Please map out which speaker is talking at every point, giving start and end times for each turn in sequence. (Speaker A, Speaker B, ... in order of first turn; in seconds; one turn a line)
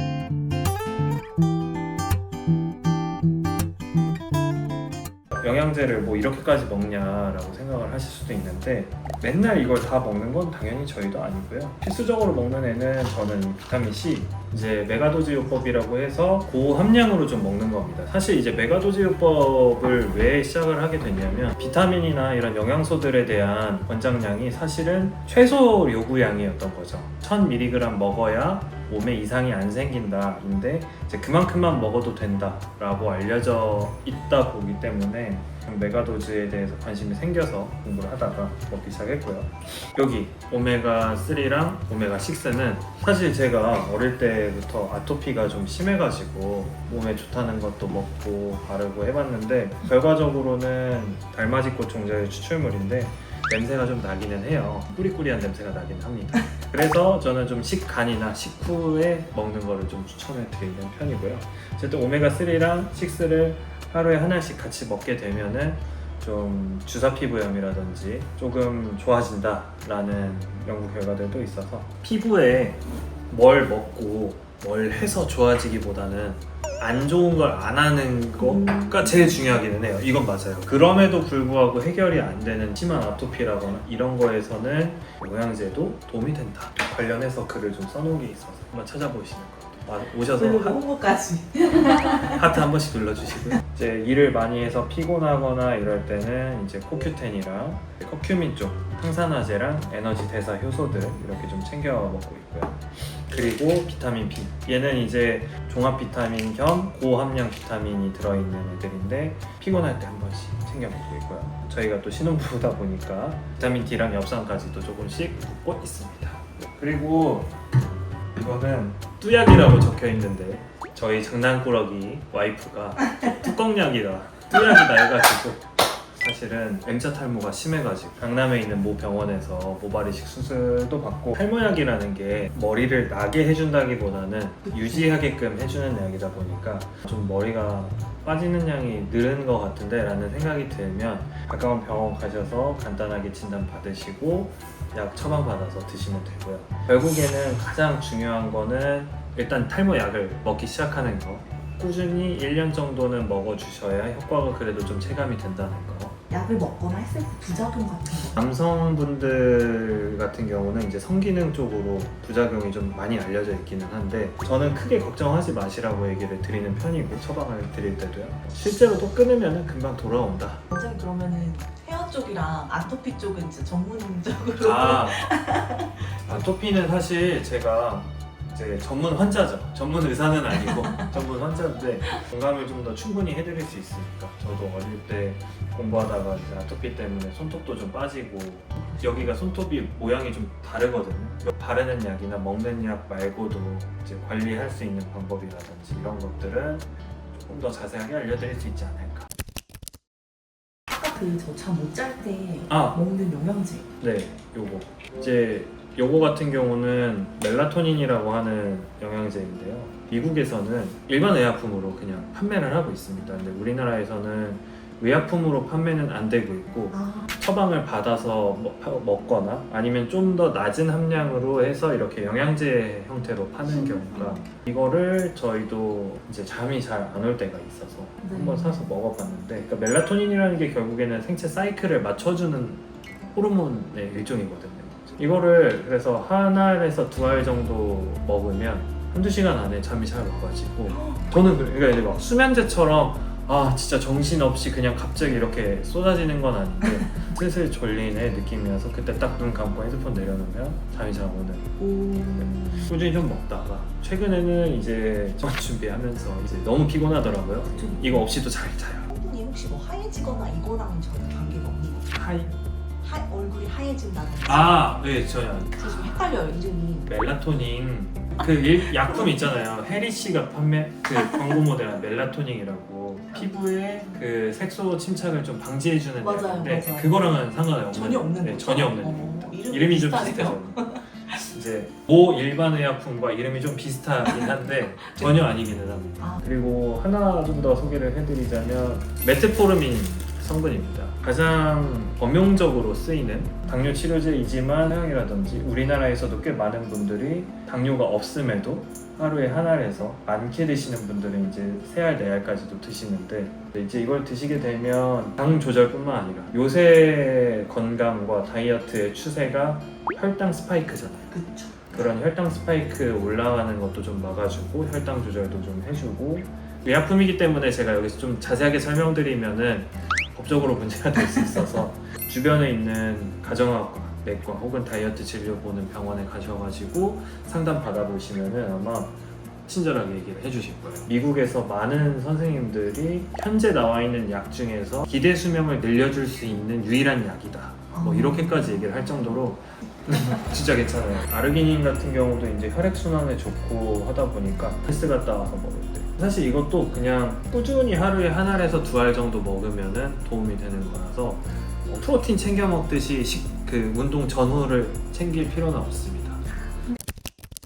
Speaker A: 5.3-90.8
Speaker B: 78.4-79.4
Speaker B: 90.4-92.6
Speaker A: 92.0-117.6
Speaker A: 118.4-156.2
Speaker B: 156.3-158.4
Speaker A: 158.3-170.6
Speaker B: 170.7-175.9
Speaker A: 174.6-175.2
Speaker A: 176.2-199.3
Speaker B: 200.9-203.9
Speaker A: 202.7-203.0
Speaker A: 204.0-251.7
Speaker B: 216.9-217.3
Speaker B: 223.7-224.5
Speaker B: 228.2-228.9
Speaker B: 240.9-241.2
Speaker B: 251.8-252.9
Speaker A: 252.4-259.1
Speaker B: 257.7-258.3
Speaker B: 259.1-262.1
Speaker A: 262.1-262.6
Speaker B: 263.0-264.9
Speaker A: 264.5-266.2
Speaker B: 265.8-267.1
Speaker A: 267.1-311.4
Speaker B: 276.2-277.2
Speaker B: 277.9-281.4
Speaker B: 311.3-311.8
Speaker A: 311.9-356.4
Speaker B: 337.9-338.8